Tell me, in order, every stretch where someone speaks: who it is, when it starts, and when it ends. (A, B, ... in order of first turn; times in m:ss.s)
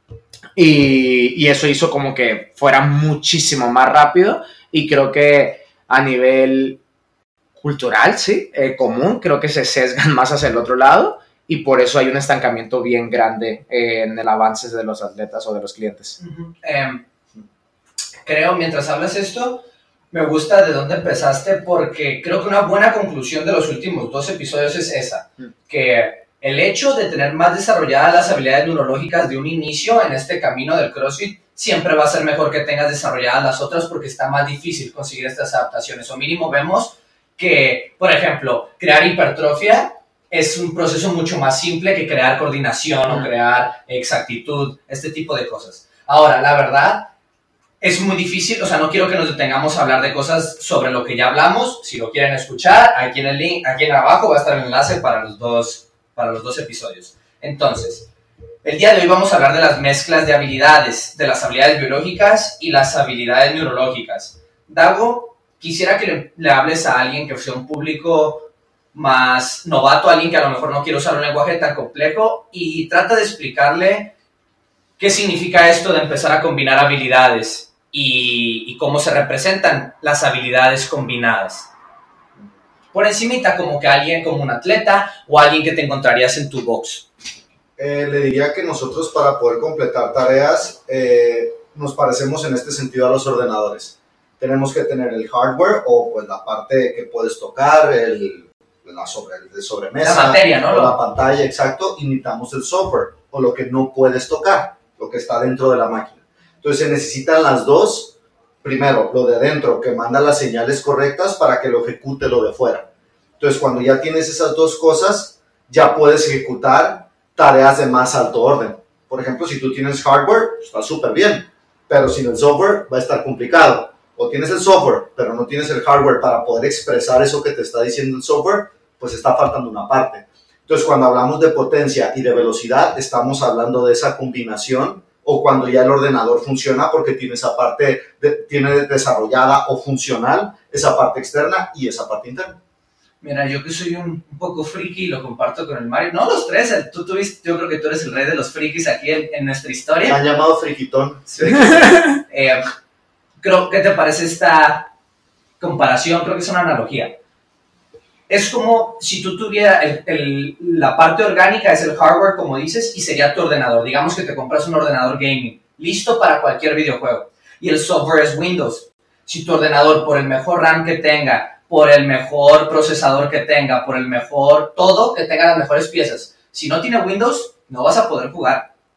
0:00.6-0:06.8 A
0:07.6-0:16.2 A
0:16.2-0:17.0 B
0:18.2-0:47.1 B
0:47.8-0:58.1 B
0:58.6-1:14.1 B
1:15.0-1:21.7 B
1:22.9-1:27.1 B
1:27.8-1:52.9 C
1:40.0-1:41.0 B
1:53.4-2:22.6 C
2:23.2-2:30.2 B
2:30.1-2:32.2 C
2:31.3-2:32.7 B
2:31.9-2:32.2 A
2:33.4-2:34.9 B
2:35.6-2:37.2 B
2:38.3-2:58.7 B